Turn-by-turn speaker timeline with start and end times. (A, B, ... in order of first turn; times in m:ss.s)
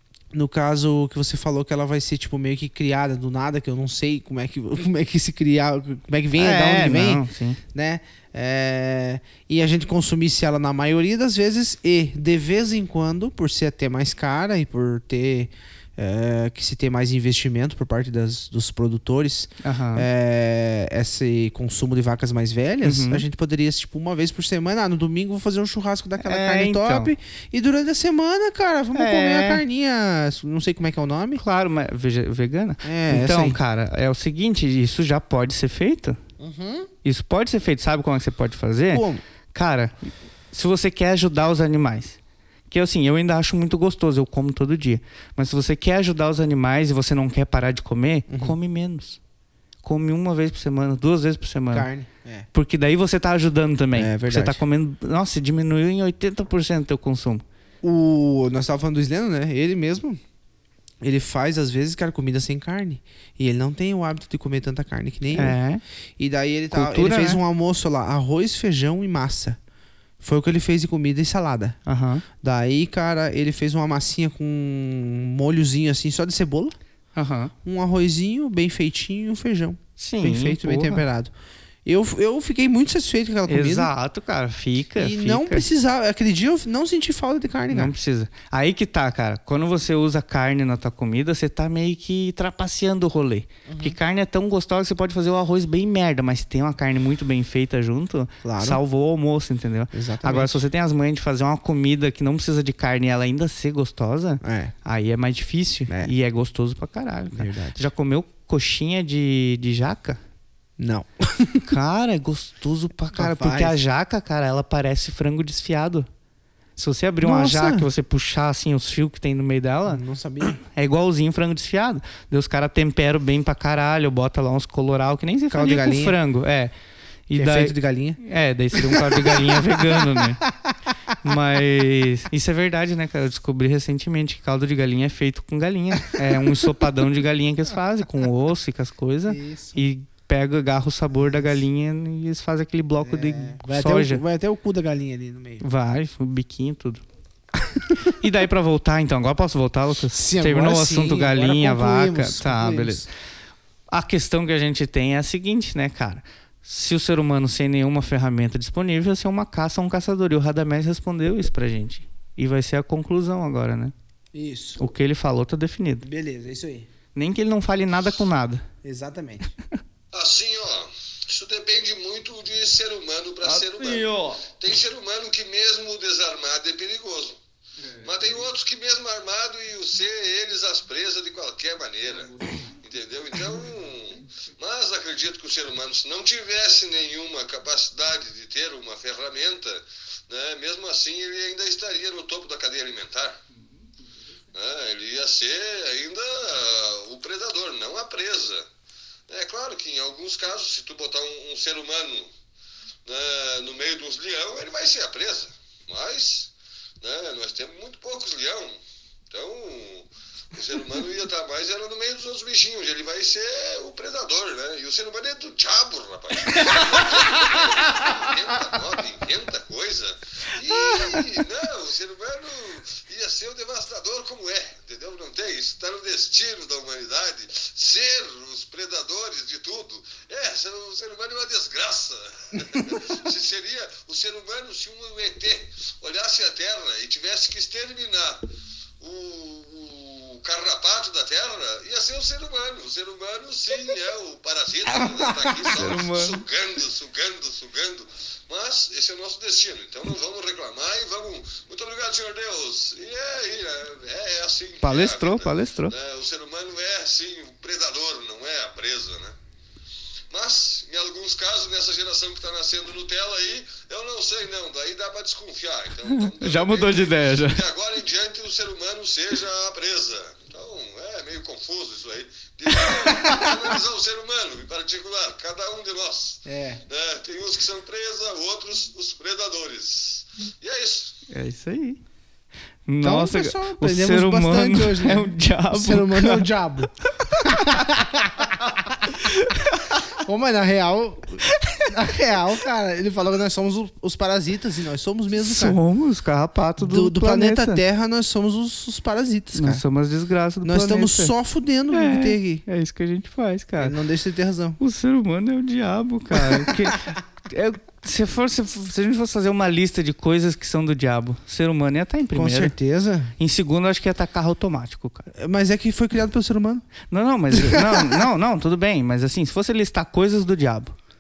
0:00.3-0:31.4 A
0:06.4-0:07.6 B
0:19.6-0:20.1 B
0:22.8-0:23.2 B
0:26.2-0:27.1 B
0:29.0-0:29.6 B
0:31.4-0:36.2 B
0:32.8-0:33.6 A
0:36.4-0:36.9 A
0:37.0-0:40.0 B
0:38.9-0:39.2 A
0:40.5-0:42.2 B
0:42.7-0:49.2 B
0:48.3-0:48.6 A
0:49.8-0:51.9 B
0:51.7-0:52.5 A
0:52.5-0:57.4 B
0:54.0-0:54.6 A
0:57.8-1:00.2 A
1:01.0-1:05.6 A
1:05.3-1:05.8 B
1:06.2-1:09.6 A
1:06.7-1:07.4 B
1:10.2-1:11.8 A
1:11.9-1:12.2 B
1:12.4-1:16.8 A
1:17.2-1:17.5 B
1:17.6-1:21.3 A
1:20.0-1:21.0 B
1:21.9-1:23.9 A
1:23.5-1:25.7 B
1:25.0-1:27.9 A
1:27.7-1:50.2 B
1:33.7-1:34.0 A
1:38.4-1:38.8 A
1:39.9-1:40.6 A
1:44.4-1:44.7 A
1:47.3-1:47.8 A
1:50.8-1:51.7 A
1:51.6-1:56.1 B
1:53.1-1:53.8 A
1:56.8-2:00.0 B
1:57.2-1:57.9 A
1:59.9-2:00.6 A
2:00.6-2:06.7 B
2:05.5-2:06.2 A
2:07.3-2:10.4 B
2:07.4-2:08.2 A
2:08.7-2:10.7 A
2:11.2-2:24.2 B
2:16.3-2:16.5 A
2:19.3-2:19.8 A
2:21.2-2:21.6 A
2:23.0-2:25.6 A
2:25.6-2:27.0 B
2:28.0-2:33.1 B
2:30.1-2:33.1 A
2:33.9-2:43.9 B
2:44.3-2:44.8 A
2:44.8-2:46.1 B
2:46.0-2:46.9 A
2:47.2-2:48.6 B
2:48.8-2:49.5 A
2:50.1-2:57.4 C
2:53.5-2:54.4 B
2:58.0-3:13.4 C
3:14.5-3:18.7 C
3:19.3-3:22.3 C
3:23.1-3:28.8 C
3:29.3-3:58.4 C
3:59.0-4:19.3 C
4:05.7-4:06.4 B
4:14.8-4:15.9 B
4:20.3-4:41.2 C
4:26.3-4:27.6 B
4:36.5-4:36.8 A
4:41.3-4:42.0 B
4:42.9-4:46.5 B
4:43.0-4:49.1 A
4:47.4-4:47.7 B
4:49.1-4:50.0 B
4:50.1-4:55.8 A
4:51.6-4:51.9 B
4:55.4-4:57.8 B
4:56.8-4:59.8 A
4:59.6-5:01.3 B
5:00.6-5:02.6 A
5:01.9-5:04.0 B
5:03.8-5:04.8 A
5:04.8-5:12.8 B
5:06.4-5:07.0 A
5:12.3-5:13.3 A
5:13.4-5:15.3 B
5:15.4-5:16.9 A
5:17.1-5:20.9 B
5:17.5-5:18.2 A